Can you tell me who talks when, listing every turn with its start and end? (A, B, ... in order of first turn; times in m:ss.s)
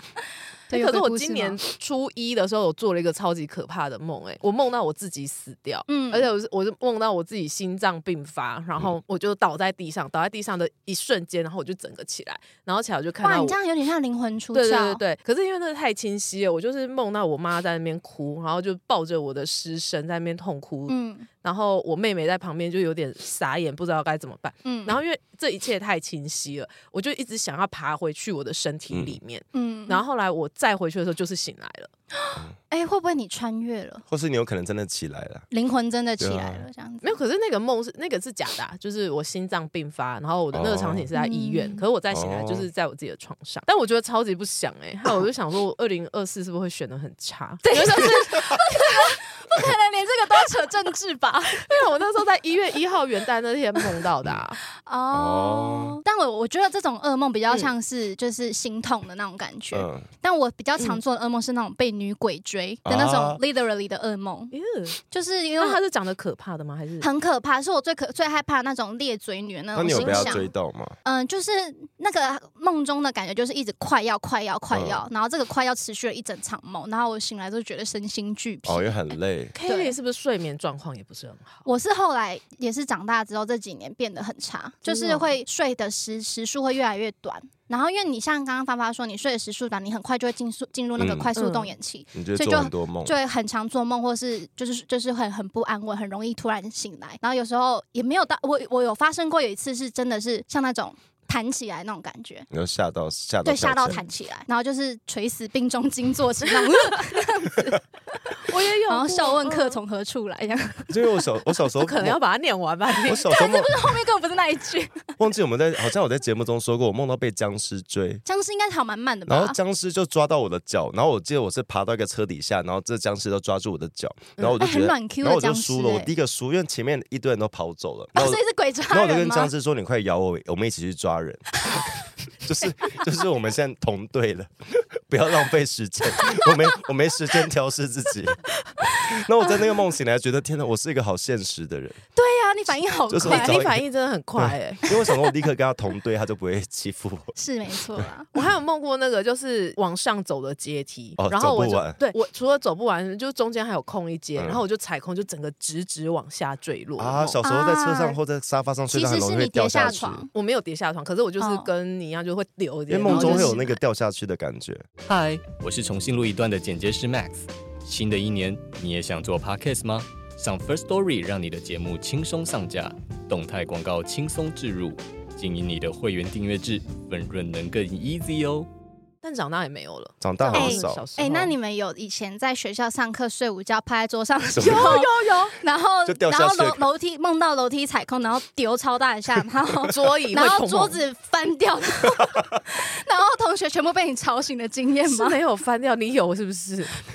0:00.7-0:01.6 A
0:00.7-0:13.6 B
0:05.9-0:06.3 A
0:13.2-0:15.0 A
0:14.5-0:31.9 B
0:20.9-0:21.3 A
0:24.6-0:25.0 A
0:28.9-0:29.2 C
0:29.5-0:30.0 A
0:32.1-0:34.0 A
0:34.1-0:35.4 C
0:35.5-0:37.2 A
0:36.2-0:36.6 C
0:37.0-0:49.0 B
0:40.5-0:41.1 C
0:41.1-0:41.8 A
0:42.1-0:42.7 C
0:47.6-0:51.7 A
0:51.6-0:54.6 B
0:54.7-1:04.5 A
0:55.1-0:56.0 C
0:59.7-1:00.1 C
1:02.8-1:03.4 C
1:04.5-1:05.0 B
1:05.1-1:05.8 A
1:05.6-1:07.1 B
1:07.0-1:10.5 A
1:09.7-1:11.0 C
1:09.9-1:10.5 B
1:11.0-1:19.0 A
1:14.7-1:15.0 C
1:18.6-1:19.5 C
1:19.5-1:21.6 B
1:19.6-1:20.0 A
1:21.6-1:42.5 A
1:24.8-1:25.3 B
1:31.0-1:31.3 C
1:31.4-1:31.7 B
1:32.1-1:33.1 C
1:42.5-1:44.0 C
1:43.4-1:47.8 A
1:48.4-1:49.8 B
1:48.9-1:50.9 A
1:50.9-1:52.2 C
1:51.8-1:53.3 B
1:53.0-1:54.0 C
1:53.2-1:55.1 A
1:55.2-1:58.2 C
1:58.2-1:59.6 A
1:59.3-2:11.6 C
2:04.6-2:06.1 A
2:08.1-2:09.5 A
2:12.4-2:18.4 C
2:18.8-2:19.1 A
2:19.0-2:22.0 C
2:22.1-2:23.6 A
2:23.1-2:23.8 C
2:23.2-2:24.9 B
2:24.4-2:27.3 C
2:27.4-2:28.3 A
2:28.3-2:37.4 B
2:31.2-2:32.0 C
2:34.4-2:34.6 C
2:37.0-2:40.2 C
2:37.4-2:38.2 A
2:38.9-2:40.3 A
2:40.3-2:43.6 B
2:41.4-2:41.7 A
2:42.9-2:44.8 C
2:43.1-2:43.8 A
2:45.1-2:58.7 D
2:59.2-3:01.5 B
3:00.2-3:01.0 C
3:00.5-3:15.4 A
3:04.5-3:05.0 C
3:04.6-3:05.6 B
3:06.0-3:06.8 C
3:09.9-3:11.0 B
3:15.1-3:17.0 B